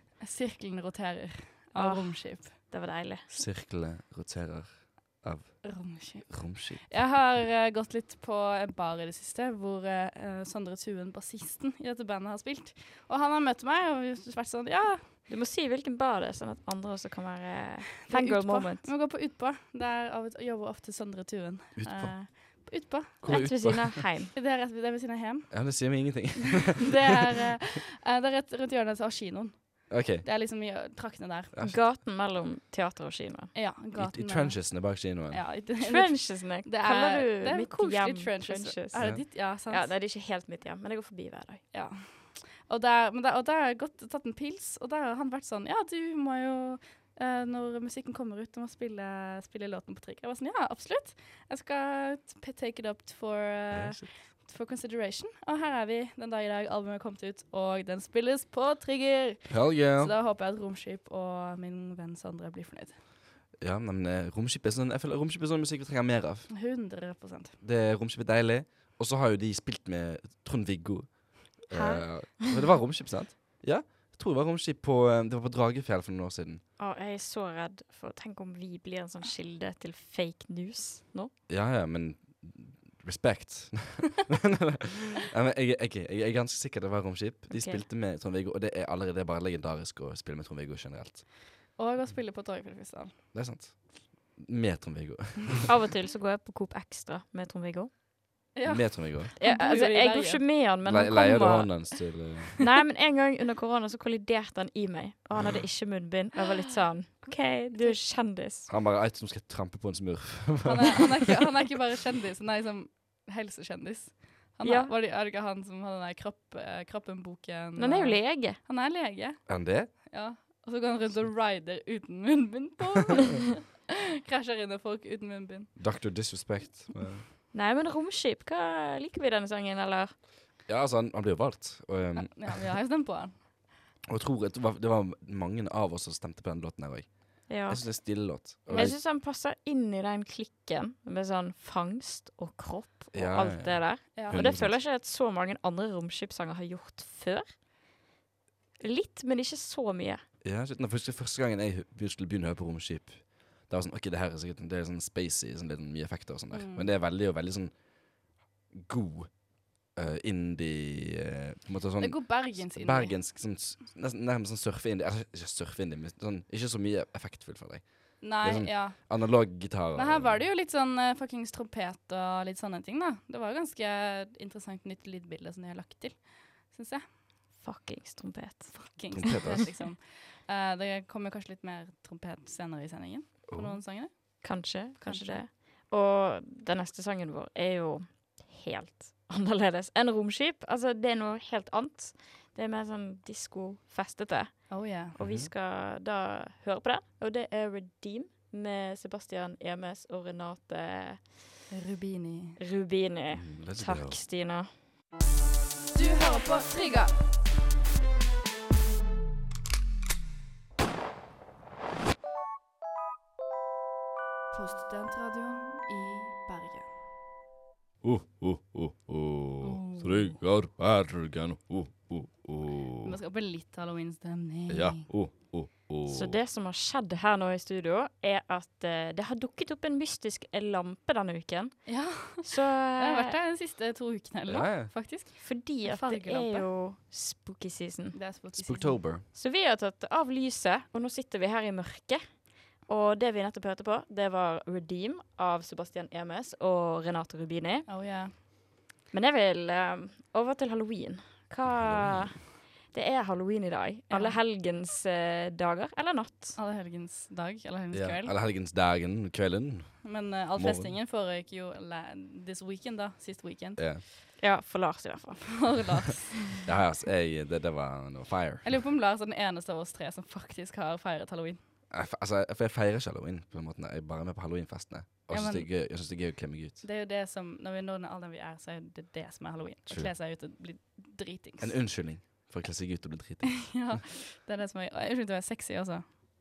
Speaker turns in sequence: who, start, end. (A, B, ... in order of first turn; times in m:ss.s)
0:00.2-0:02.6 A
0:01.7-0:03.2 B
0:03.3-0:07.0 C
0:05.6-0:15.1 A
0:15.3-0:18.9 B
0:18.1-0:23.2 A
0:21.8-0:22.2 C
0:23.2-0:24.0 C
0:23.3-0:24.3 B
0:24.3-0:31.5 A
0:25.5-0:27.4 C
0:29.9-0:30.2 C
0:31.5-0:31.8 C
0:31.6-0:33.5 B
0:33.5-0:39.9 A
0:34.0-0:35.4 C
0:35.7-0:41.6 B
0:41.7-1:03.0 A
0:53.7-0:54.1 C
0:59.5-1:00.1 C
1:03.6-1:06.5 C
1:06.5-1:07.6 A
1:07.6-1:16.6 C
1:11.7-1:12.5 B
1:16.8-1:21.3 B
1:21.5-1:31.3 C
1:27.5-1:27.8 B
1:31.8-1:33.1 A
1:33.3-1:35.7 C
1:35.7-1:37.9 B
1:38.5-1:40.4 A
1:38.6-1:39.3 C
1:39.4-1:48.7 B
1:40.8-1:42.6 C
1:48.7-1:51.4 C
1:50.6-2:05.7 A
1:54.6-1:54.9 B
1:57.8-1:58.6 B
1:59.5-1:59.9 C
2:05.8-2:07.2 C
2:07.5-2:10.1 B
2:10.6-2:12.5 C
2:12.2-2:13.3 A
2:14.1-2:19.0 C
2:17.5-2:27.4 B
2:23.1-2:24.7 C
2:28.8-2:30.2 B
2:30.4-2:37.8 C
2:36.5-2:36.9 A
2:38.7-2:50.4 C
2:42.0-2:43.2 A
2:48.2-2:57.0 A
2:57.6-2:59.4 B
2:58.7-3:04.1 A
2:59.1-2:59.7 C
3:03.5-3:03.8 C
3:04.4-3:21.2 B
3:05.0-3:05.4 A
3:14.7-3:15.1 A
3:15.2-3:15.5 C
3:21.7-3:22.6 A
3:22.6-3:24.7 B
3:23.3-3:24.2 C
3:25.9-3:27.1 A
3:34.5-3:36.9 A
3:38.0-3:43.2 C
3:39.6-3:40.4 A
3:43.0-3:45.0 A
3:44.7-3:46.4 C
3:46.0-3:53.3 B
3:51.9-3:56.7 A
3:54.5-3:54.9 C
3:55.4-3:58.2 B
3:58.1-3:59.0 A
3:58.5-3:59.2 C
3:59.3-4:07.9 B
4:07.9-4:08.3 A
4:09.1-4:16.6 B
4:11.6-4:12.4 C
4:14.1-4:14.4 A
4:16.6-4:18.3 A
4:17.9-4:20.9 C
4:20.0-4:23.9 A
4:23.8-4:24.0 C
4:24.4-4:25.6 B
4:25.4-4:26.6 A
4:26.6-4:28.8 C
4:28.6-4:31.6 A
4:31.9-4:36.8 C
4:35.3-4:35.7 A
4:36.8-4:41.8 A
4:41.6-4:43.8 C
4:43.6-4:46.0 A